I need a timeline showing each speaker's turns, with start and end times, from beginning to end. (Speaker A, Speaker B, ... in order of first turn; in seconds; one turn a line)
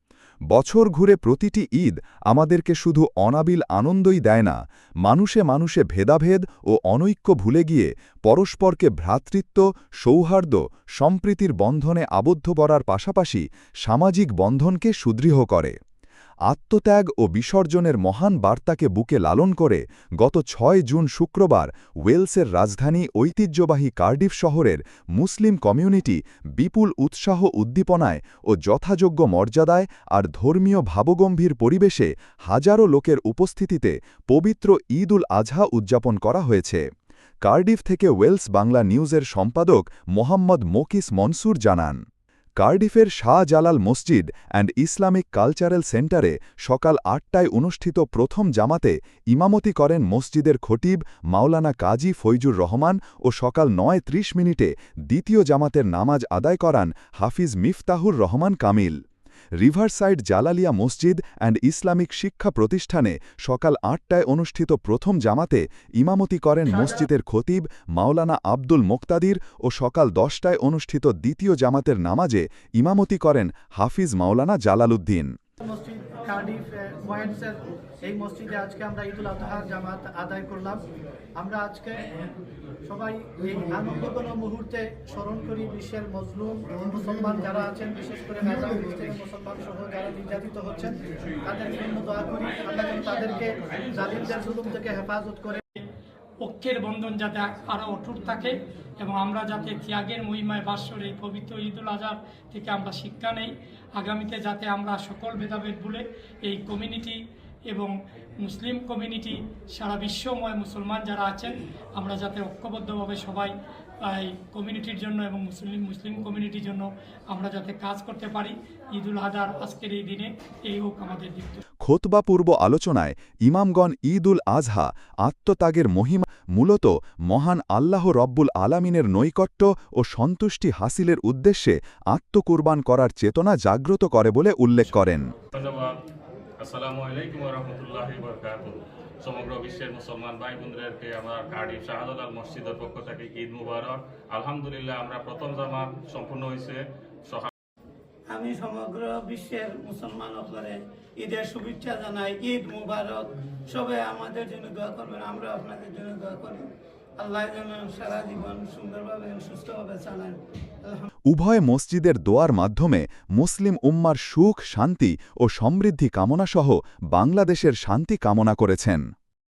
Speaker A: 0.5-15.8
Speaker A: 16.5-36.8
Speaker A: 37.4-42.0
Speaker A: 42.6-59.0
Speaker A: 59.6-75.3
Speaker B: 66.7-67.0
Speaker B: 75.6-80.8
Speaker B: 81.4-82.2
Speaker B: 82.8-95.6
Speaker C: 96.4-107.2
Speaker C: 107.7-113.5
Speaker C: 114.0-121.6
Speaker A: 121.8-135.3
Speaker D: 135.5-136.0
Speaker D: 136.6-147.5
Speaker E: 148.3-161.1
Speaker A: 161.3-169.1